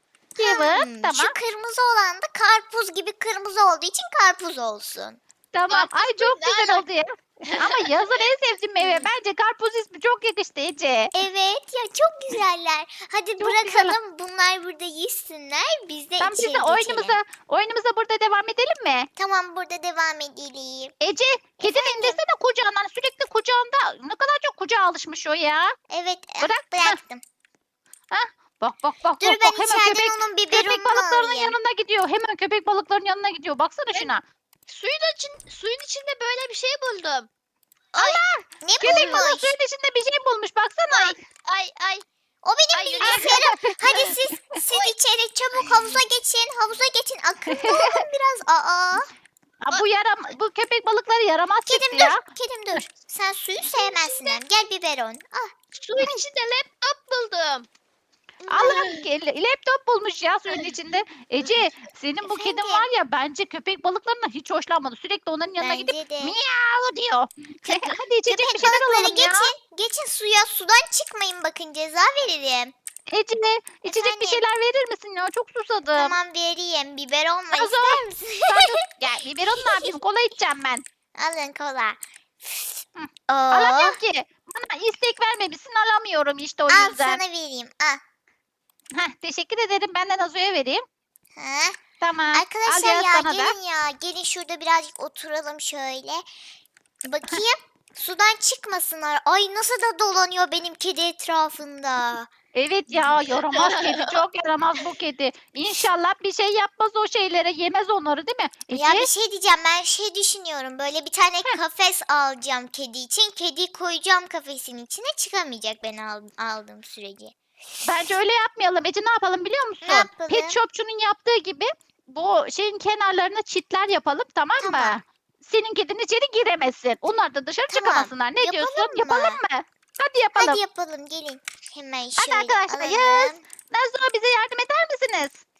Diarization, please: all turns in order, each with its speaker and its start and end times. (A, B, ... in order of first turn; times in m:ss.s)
0:00.4-0:01.4 A
0:00.4-0:05.2 B
0:05.5-0:11.1 A
0:05.7-0:06.9 C
0:07.4-0:08.1 C
0:11.1-0:17.2 B
0:13.4-0:14.0 A
0:16.2-0:19.1 A
0:19.2-0:20.9 B
0:21.0-0:25.7 A
0:21.6-0:22.2 B
0:25.9-0:27.2 B
0:26.4-0:27.0 A
0:28.1-0:34.2 A
0:29.2-0:31.6 B
0:34.7-0:37.3 C
0:37.9-0:39.5 B
0:38.0-0:41.2 A
0:38.8-0:39.3 C
0:40.9-0:42.0 C
0:42.4-0:49.1 B
0:42.7-0:44.1 C
0:43.0-0:44.1 A
0:47.5-0:48.0 A
0:49.6-0:52.2 A
0:51.7-0:55.5 B
0:53.7-0:54.4 C
0:55.8-0:57.7 C
0:58.4-0:58.9 B
0:58.5-1:09.5 A
0:58.7-0:59.1 C
1:02.2-1:02.9 B
1:05.6-1:06.4 B
1:07.6-1:12.7 B
1:13.1-1:16.2 A
1:13.8-1:14.4 B
1:16.0-1:18.7 B
1:17.5-1:20.8 A
1:19.6-1:20.0 B
1:21.2-1:24.0 B
1:23.0-1:27.2 A
1:26.7-1:28.0 B
1:29.0-1:30.8 A
1:31.4-1:31.8 B
1:32.0-1:33.6 A
1:32.3-1:36.2 B
1:37.0-1:42.3 B
1:42.6-1:49.1 A
1:42.9-1:44.2 C
1:48.7-1:57.4 B
1:57.8-2:10.6 A
1:59.8-2:00.6 B
2:04.6-2:05.0 B
2:07.7-2:09.4 B
2:10.4-2:13.4 B
2:12.2-2:15.4 A